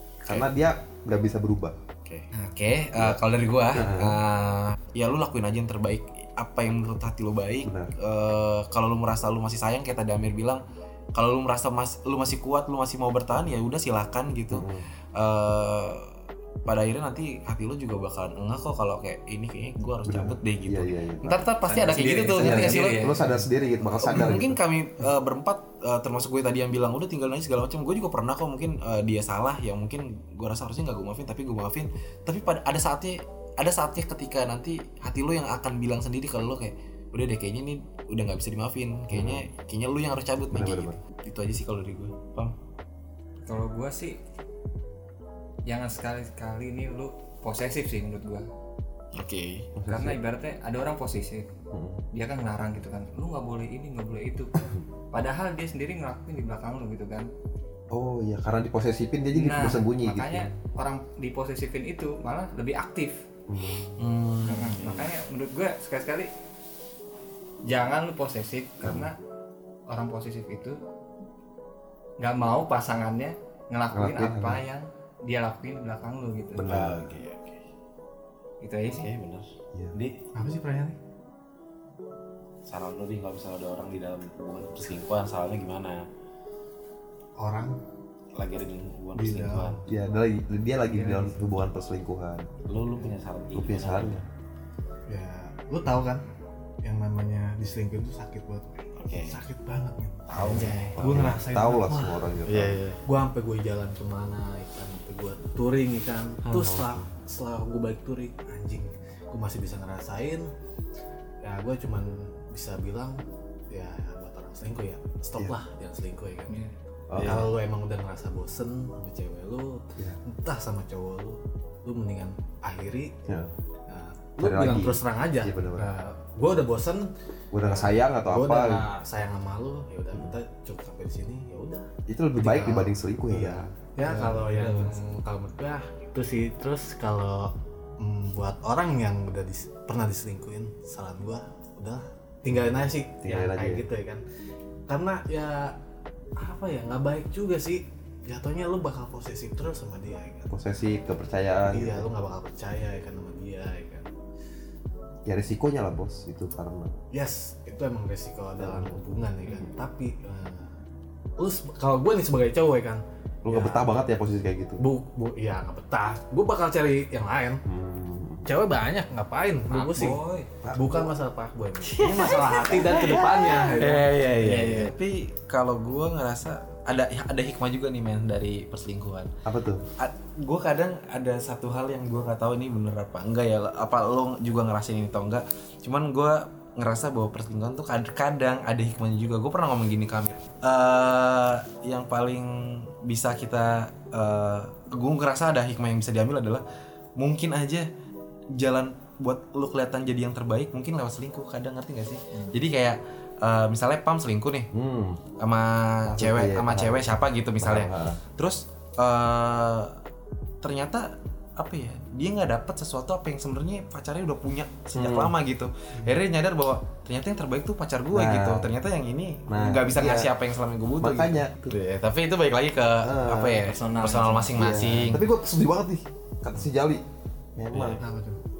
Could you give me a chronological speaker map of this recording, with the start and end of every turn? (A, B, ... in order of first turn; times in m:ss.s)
0:00.2-0:01.8 A
0:02.0-0:10.6 B
0:03.7-0:04.2 A
0:07.6-0:07.9 A
0:11.1-0:16.1 B
0:14.5-0:14.9 A
0:16.6-0:23.2 B
0:20.0-0:21.5 A
0:21.6-0:23.3 C
0:22.3-0:24.6 A
0:23.8-0:42.5 B
0:39.1-0:39.5 A
0:40.5-0:41.0 A
0:43.4-0:44.2 C
0:45.6-0:48.5 C
0:49.1-0:49.6 B
0:49.8-0:50.2 A
0:49.9-0:51.5 C
0:51.7-0:52.0 A
0:52.1-0:57.3 C
0:57.9-1:00.5 A
0:59.3-1:03.2 C
1:03.5-1:04.0 A
1:04.0-1:05.1 B
1:04.4-1:06.3 C
1:07.6-1:09.2 C
1:08.8-1:09.1 A
1:09.9-1:10.8 C
1:12.2-1:16.7 C
1:13.9-1:14.6 A
1:16.5-1:17.2 A
1:16.6-1:17.6 B
1:18.6-1:19.1 C
1:18.8-1:20.2 B
1:20.3-1:21.0 D
1:22.6-1:26.1 B
1:27.4-1:27.8 D
1:28.3-1:29.8 B
1:29.1-1:29.8 D
1:29.8-1:32.5 A
1:32.7-1:34.3 B
1:33.5-1:34.2 A
1:35.1-1:36.2 D
1:36.8-1:42.2 D
1:39.0-1:39.4 B
1:40.3-1:41.3 B
1:40.3-1:42.8 A
1:42.4-1:43.0 B
1:43.0-1:50.5 D
1:46.4-1:46.8 B
1:46.6-1:47.1 A
1:51.4-1:56.6 D
1:57.1-1:57.5 A
1:57.2-2:03.2 D
2:03.2-2:03.5 A
2:03.9-2:07.1 D
2:04.4-2:05.9 A
2:07.5-2:08.9 A
2:07.6-2:24.2 D
2:12.1-2:13.7 A
2:14.0-2:15.0 B
2:23.2-2:23.8 A
2:24.9-2:25.8 D
2:26.4-2:30.5 D
2:30.5-2:32.1 A
2:31.7-2:34.1 D
2:35.2-2:36.9 A
2:37.1-2:40.8 D
2:38.6-2:39.7 A
2:41.4-2:43.9 D
2:43.4-2:44.8 A
2:44.8-2:47.6 D
2:47.6-2:48.5 A
2:48.4-2:50.2 D
2:49.7-2:50.5 C
2:50.6-2:51.1 A
2:50.7-2:54.2 D
2:52.0-2:52.8 B
2:52.0-2:53.5 A
2:53.7-2:59.3 B
2:54.4-2:54.9 C
2:59.4-2:59.8 A
3:00.0-3:16.6 B
3:17.2-3:17.9 B
3:18.5-3:24.7 B
3:24.7-3:25.2 A
3:25.4-3:30.0 B
3:26.0-3:28.2 A
3:30.6-3:45.2 B
3:34.9-3:35.3 A
3:38.1-3:38.7 A
3:39.5-3:40.3 A
3:41.0-3:41.7 A
3:43.0-3:43.7 A
3:43.6-3:44.8 C
3:44.6-3:47.0 A
3:47.6-3:48.0 A
3:47.7-3:48.0 B
3:48.0-3:48.4 D